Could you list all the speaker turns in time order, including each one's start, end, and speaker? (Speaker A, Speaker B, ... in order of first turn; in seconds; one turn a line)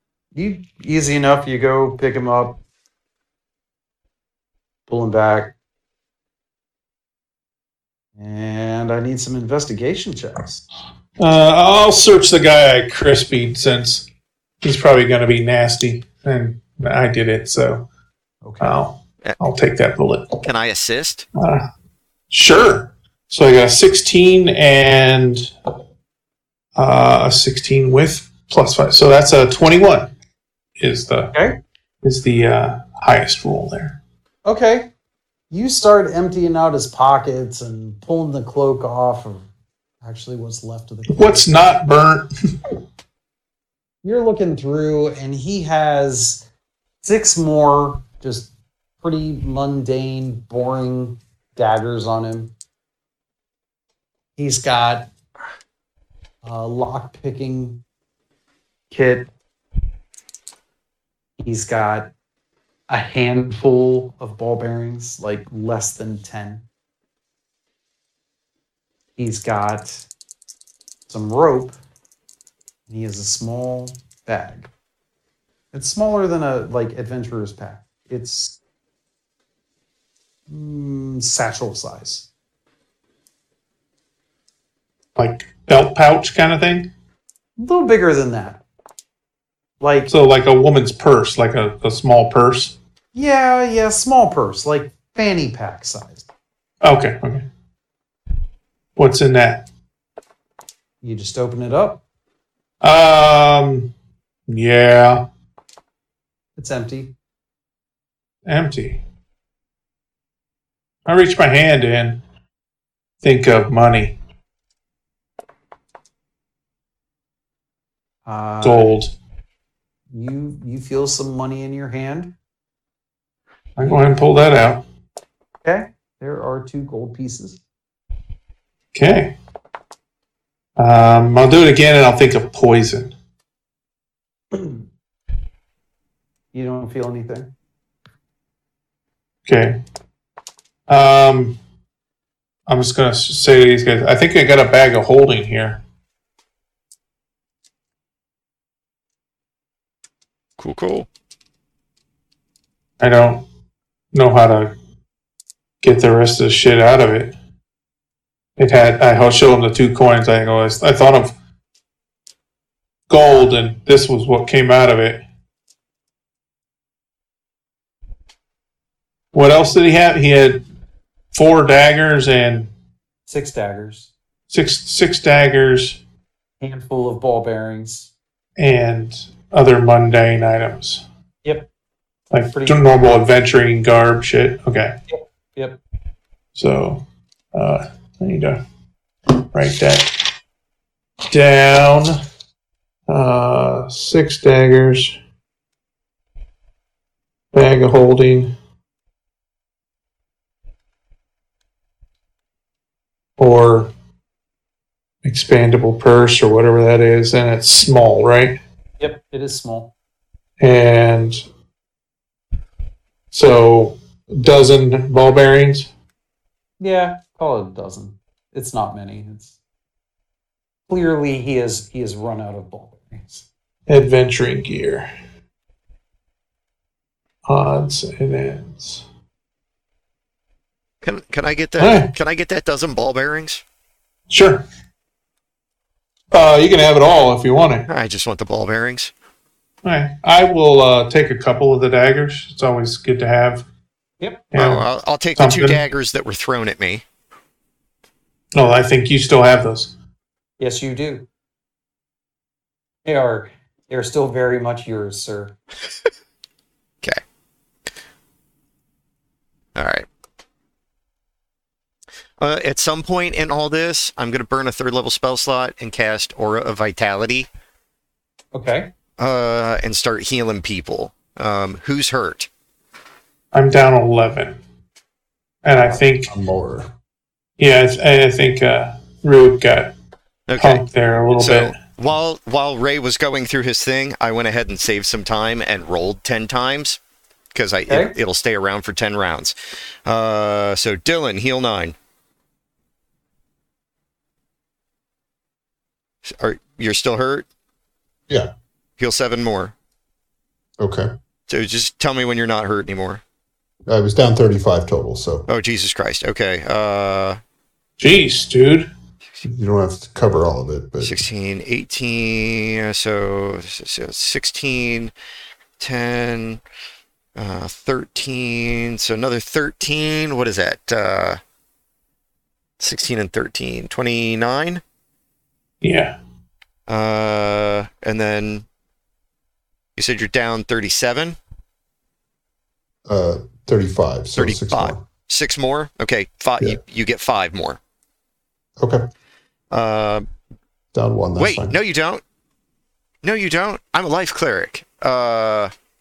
Speaker A: 0.3-2.5
Speaker A: 4.9-5.5
Speaker A: 8.2-10.6
Speaker B: 11.2-14.1
Speaker B: 14.6-17.8
Speaker A: 18.4-18.8
Speaker B: 18.6-20.4
Speaker C: 20.4-21.3
Speaker B: 21.4-21.6
Speaker B: 22.3-25.5
Speaker B: 26.7-30.1
Speaker B: 30.8-31.3
Speaker B: 32.0-34.0
Speaker A: 34.5-34.9
Speaker A: 35.5-39.5
Speaker A: 40.0-41.5
Speaker B: 41.1-42.3
Speaker A: 44.0-46.4
Speaker A: 47.0-48.5
Speaker A: 49.0-52.5
Speaker A: 54.4-55.1
Speaker A: 56.4-57.8
Speaker A: 58.9-59.3
Speaker A: 61.4-62.1
Speaker A: 62.9-66.6
Speaker A: 69.2-70.0
Speaker A: 71.1-71.7
Speaker A: 72.9-74.7
Speaker A: 75.7-78.5
Speaker A: 80.5-82.2
Speaker B: 85.2-86.9
Speaker A: 87.6-88.6
Speaker A: 89.8-90.1
Speaker B: 90.1-92.7
Speaker A: 93.1-96.2
Speaker B: 96.8-97.4
Speaker B: 99.0-99.6
Speaker A: 101.0-102.0
Speaker B: 102.8-103.9
Speaker B: 104.5-105.2
Speaker A: 106.6-107.1
Speaker B: 108.5-109.0
Speaker B: 111.0-112.2
Speaker B: 113.2-114.1
Speaker A: 118.2-118.9
Speaker B: 118.6-119.1
Speaker A: 120.1-122.3
Speaker B: 123.8-124.8
Speaker A: 125.6-127.6
Speaker B: 128.9-129.3
Speaker B: 130.8-133.1
Speaker A: 134.5-134.8
Speaker A: 136.5-137.5
Speaker B: 139.4-139.8
Speaker B: 140.9-141.5
Speaker B: 142.7-145.8
Speaker C: 150.6-151.1
Speaker B: 153.0-153.4
Speaker B: 154.1-154.7
Speaker B: 155.8-157.3
Speaker B: 158.6-161.3
Speaker B: 163.1-165.2
Speaker B: 169.3-170.6
Speaker B: 171.3-172.7
Speaker A: 173.3-174.1
Speaker B: 174.5-176.0
Speaker A: 176.6-178.1
Speaker B: 178.6-181.0
Speaker B: 182.3-184.9
Speaker A: 182.5-182.8
Speaker A: 185.1-185.8
Speaker B: 186.5-187.0
Speaker B: 187.5-188.6
Speaker B: 189.5-190.1
Speaker B: 191.3-192.2
Speaker B: 193.1-195.1
Speaker B: 197.5-198.5
Speaker B: 203.4-203.9
Speaker B: 205.2-208.5
Speaker A: 209.0-209.9
Speaker B: 210.6-211.4
Speaker B: 213.3-215.9
Speaker A: 216.8-219.5
Speaker A: 220.9-223.4
Speaker B: 223.9-225.1
Speaker B: 227.4-229.0
Speaker C: 231.0-233.6
Speaker B: 231.8-232.1
Speaker B: 234.3-234.6
Speaker B: 236.3-237.8
Speaker C: 237.9-239.1
Speaker B: 239.8-243.6
Speaker B: 244.5-244.8
Speaker C: 244.5-247.0
Speaker B: 245.3-245.8
Speaker B: 248.5-249.9
Speaker A: 250.6-251.2
Speaker A: 253.0-255.5
Speaker C: 259.7-260.1
Speaker C: 262.4-267.5
Speaker A: 268.5-268.9
Speaker C: 269.2-272.5
Speaker B: 273.5-274.6
Speaker B: 275.6-276.3
Speaker D: 276.3-276.9
Speaker B: 277.6-279.9
Speaker C: 280.5-280.8
Speaker B: 280.6-281.7
Speaker C: 281.4-287.0
Speaker C: 287.5-289.5
Speaker C: 290.1-291.9
Speaker C: 296.4-297.5
Speaker C: 299.0-299.7
Speaker D: 300.8-301.1
Speaker C: 301.5-303.2
Speaker D: 303.9-305.4
Speaker C: 305.5-307.4
Speaker B: 308.0-308.9
Speaker D: 309.4-311.2
Speaker C: 311.0-315.1
Speaker C: 315.8-316.6
Speaker C: 317.4-321.4
Speaker C: 322.8-324.8
Speaker B: 325.8-326.1
Speaker C: 326.9-328.6
Speaker C: 329.9-331.4
Speaker D: 333.1-335.0
Speaker C: 334.4-337.8
Speaker C: 339.7-340.3
Speaker D: 340.9-341.7
Speaker C: 341.4-342.2
Speaker C: 343.2-345.7